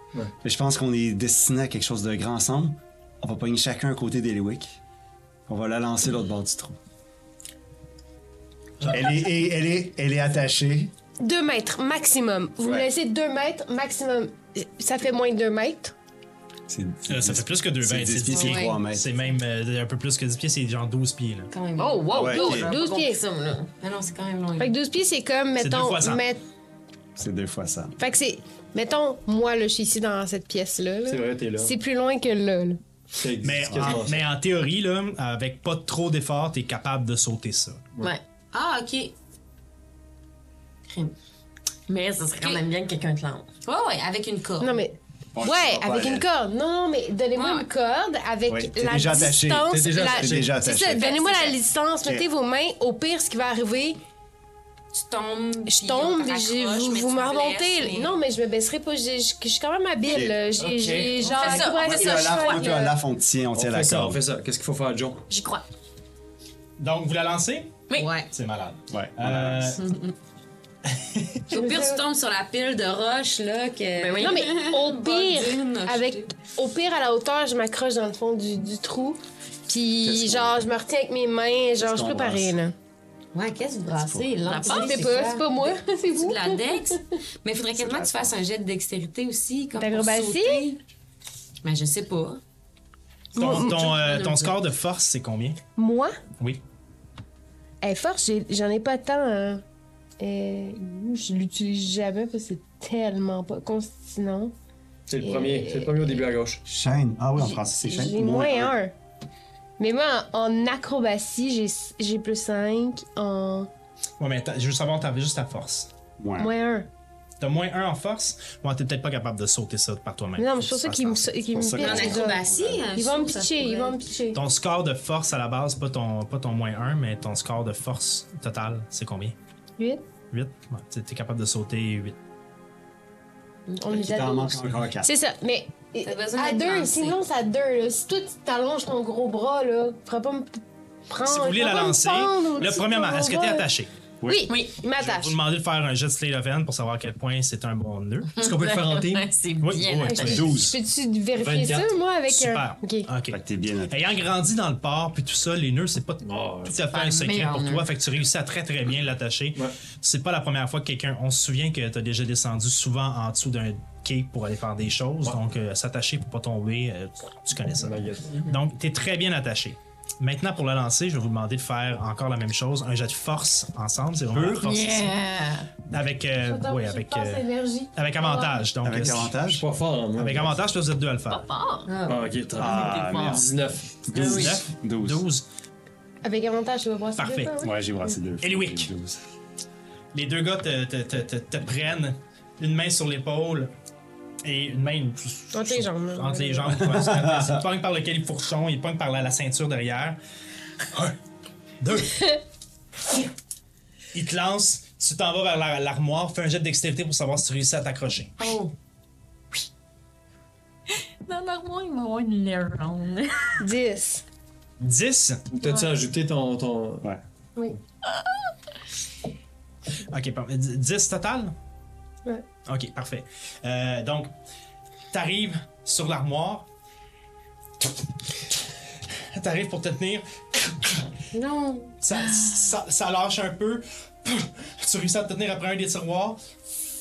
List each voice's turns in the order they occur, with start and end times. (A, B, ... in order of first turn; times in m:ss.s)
0:00.4-0:04.8 A
0:05.5-0:06.8 A
0:08.9-0:10.9 A
0:11.2-0:15.9 B
0:12.6-0:12.9 A
0:16.7-0:19.1 A
0:17.1-0:21.5 C
0:18.3-0:18.8 D
0:21.5-0:22.1 D
0:21.8-0:23.7 E
0:22.1-0:22.7 A
0:22.3-0:23.2 B
0:23.8-0:24.7 D
0:24.6-0:26.4 B
0:25.6-0:26.2 C
0:27.2-0:28.0 A
0:28.0-0:32.8 B
0:31.1-0:31.7 F
0:33.1-0:34.2 F
0:33.4-0:37.8 C
0:33.7-0:34.0 A
0:38.5-0:39.1 D
0:40.9-0:41.1 D
0:41.9-0:43.5 E
0:43.6-0:44.8 D
0:44.6-0:54.0 B
0:45.3-0:46.3 A
0:47.3-0:47.7 D
0:48.5-0:51.1 A
0:49.7-0:50.6 F
0:50.9-0:51.6 D
0:54.9-0:58.1 D
0:55.7-1:03.0 B
1:00.1-1:00.4 A
1:00.6-1:01.2 F
1:01.2-1:02.8 E
1:01.2-1:01.8 D
1:01.8-1:04.2 A
1:03.5-1:05.2 F
1:05.3-1:05.6 E
1:06.8-1:09.8 C
1:07.9-1:08.2 E
1:07.9-1:08.3 D
1:08.9-1:09.8 A
1:09.8-1:10.1 D
1:10.9-1:11.4 C
1:11.5-1:16.3 D
1:11.5-1:12.0 B
1:14.0-1:14.5 E
1:14.2-1:22.7 B
1:20.0-1:20.6 A
1:21.8-1:22.5 A
1:23.3-1:25.5 D
1:24.0-1:24.3 A
1:24.4-1:25.1 E
1:24.6-1:26.6 B
1:26.2-1:30.8 D
1:27.8-1:28.3 A
1:29.8-1:30.7 B
1:31.6-1:32.4 D
1:33.3-1:34.0 B
1:33.3-1:35.6 C
1:33.4-1:34.5 D
1:35.8-1:36.1 B
1:37.8-1:39.6 B
1:40.2-1:44.5 B
1:45.1-1:46.6 F
1:45.2-1:46.2 B
1:46.6-1:48.7 A
1:47.5-1:48.9 B
1:49.8-1:53.7 B
1:54.2-1:55.9 C
1:56.2-1:56.5 A
1:56.4-1:56.9 B
1:57.4-2:01.6 C
2:00.4-2:04.4 B
2:01.6-2:02.9 A
2:01.8-2:04.0 D
2:04.3-2:09.4 C
2:10.3-2:12.2 C
2:13.7-2:23.7 B
2:13.8-2:15.1 A
2:16.0-2:17.2 D
2:21.2-2:23.9 C
2:24.2-2:24.5 A
2:24.2-2:25.4 B
2:24.5-2:24.7 E
2:25.0-2:28.3 C
2:28.4-2:29.3 F
2:28.4-2:30.4 E
2:29.6-2:30.7 C
2:30.1-2:33.1 B
2:30.2-2:30.7 A
2:31.4-2:32.0 F
2:32.3-2:55.1 C
2:33.3-2:33.9 A
2:36.2-2:36.8 F
2:36.8-2:37.9 E
2:47.7-2:48.5 F
2:54.3-2:54.7 A
2:54.6-2:55.7 E
2:55.9-2:57.4 C
2:56.4-2:58.6 B
2:57.9-2:59.4 C
2:58.8-2:59.6 A
2:59.0-3:00.6 F
3:00.2-3:01.5 C
3:01.3-3:02.0 E
3:01.9-3:02.2 D
3:02.1-3:04.7 F
3:02.6-3:03.4 A
3:02.6-3:03.4 E
3:04.1-3:05.2 A
3:04.2-3:05.4 C
3:06.2-3:07.8 B
3:07.2-3:07.6 C
3:07.6-3:09.2 A
3:08.4-3:08.9 C
3:10.1-3:13.7 C
3:14.4-3:20.2 C
3:15.5-3:16.8 B
3:16.8-3:17.6 A
3:21.8-3:22.3 C
3:24.1-3:28.3 C
3:30.9-3:33.6 E
3:33.6-3:34.2 B
3:34.8-3:35.4 C
3:35.5-3:37.1 F
3:38.1-3:38.5 E
3:40.1-3:41.5 C
3:42.6-3:44.3 C
3:45.1-3:46.6 C
3:49.1-3:51.1 C
3:51.3-3:51.9 B
3:52.0-3:56.4 C
3:52.2-3:52.5 E